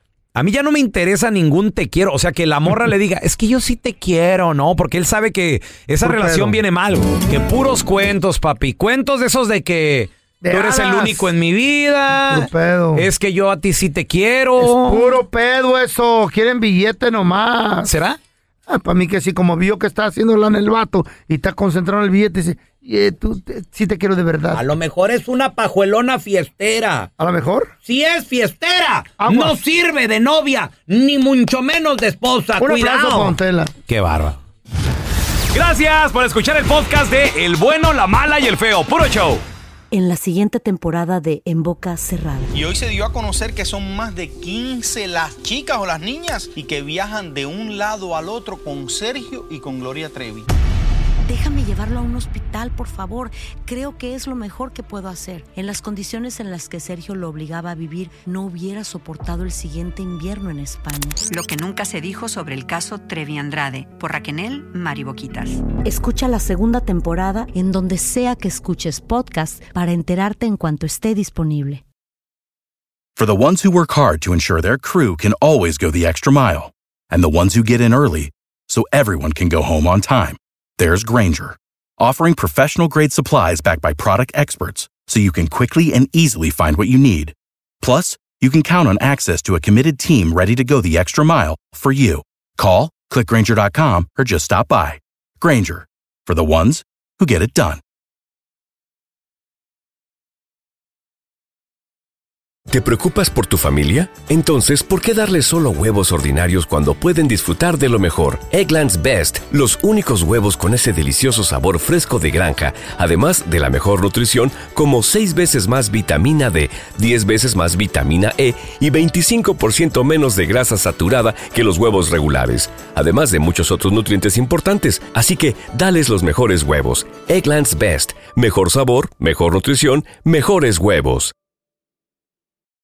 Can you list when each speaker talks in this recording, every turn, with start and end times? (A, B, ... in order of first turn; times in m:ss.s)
0:00.3-0:15.2 A
0:06.0-0:06.6 B
0:10.4-0:11.3 B
0:12.2-0:13.1 B
0:14.6-0:17.9 B
0:17.8-0:18.2 A
0:18.7-0:24.6 B
0:24.5-0:27.1 A
0:27.2-0:27.7 B
0:27.8-0:33.4 A
0:29.2-0:29.6 B
0:32.6-0:33.7 B
0:33.9-0:34.4 A
0:35.5-0:39.4 A
0:39.9-0:42.5 C
0:42.5-0:50.5 D
0:51.2-1:01.2 C
1:01.3-1:05.7 E
1:05.8-1:11.8 C
1:13.2-1:37.8 F
1:42.7-2:11.3 G